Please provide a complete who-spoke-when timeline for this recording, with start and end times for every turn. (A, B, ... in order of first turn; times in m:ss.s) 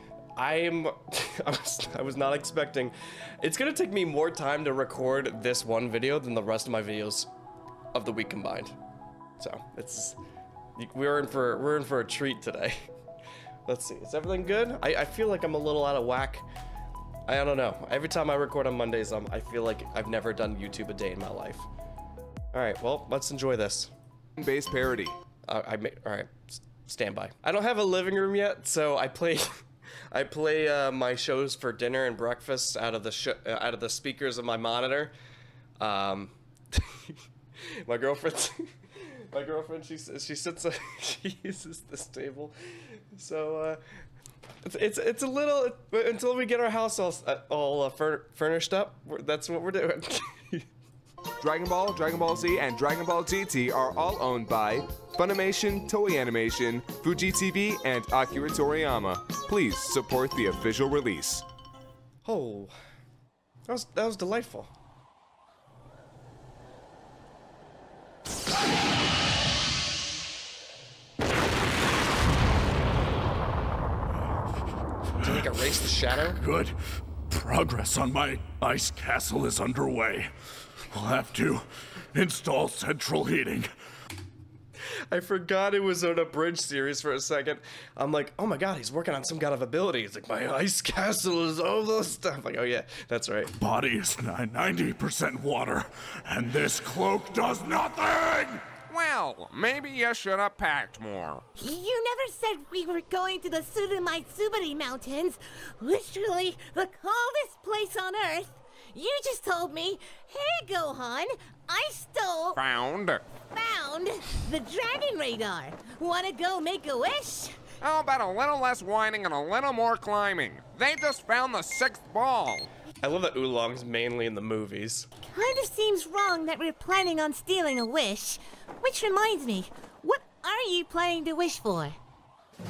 0:00.4-0:07.3 A
0:07.9-0:08.8 A
0:09.4-0:10.2 A
0:10.8-0:12.8 A
0:13.6-0:16.4 A
0:17.3-0:21.6 A
0:22.5-0:23.9 A
0:24.4-0:25.1 B
0:25.5-0:29.5 A
0:30.1-0:35.1 A
0:35.8-0:42.5 A
0:43.1-0:43.8 A
0:44.6-0:50.6 A
0:51.4-1:01.4 B
1:02.2-1:02.7 A
1:03.7-1:04.7 A
1:15.2-1:16.4 A
1:16.3-1:16.8 C
1:17.3-1:20.3 C
1:20.9-1:23.7 C
1:25.1-1:33.5 A
1:33.6-1:38.6 C
1:38.9-1:41.4 D
1:41.6-1:52.6 E
1:52.5-1:53.2 D
1:53.5-1:57.6 E
1:57.8-2:02.7 D
2:03.0-2:05.1 A
2:05.3-2:12.0 E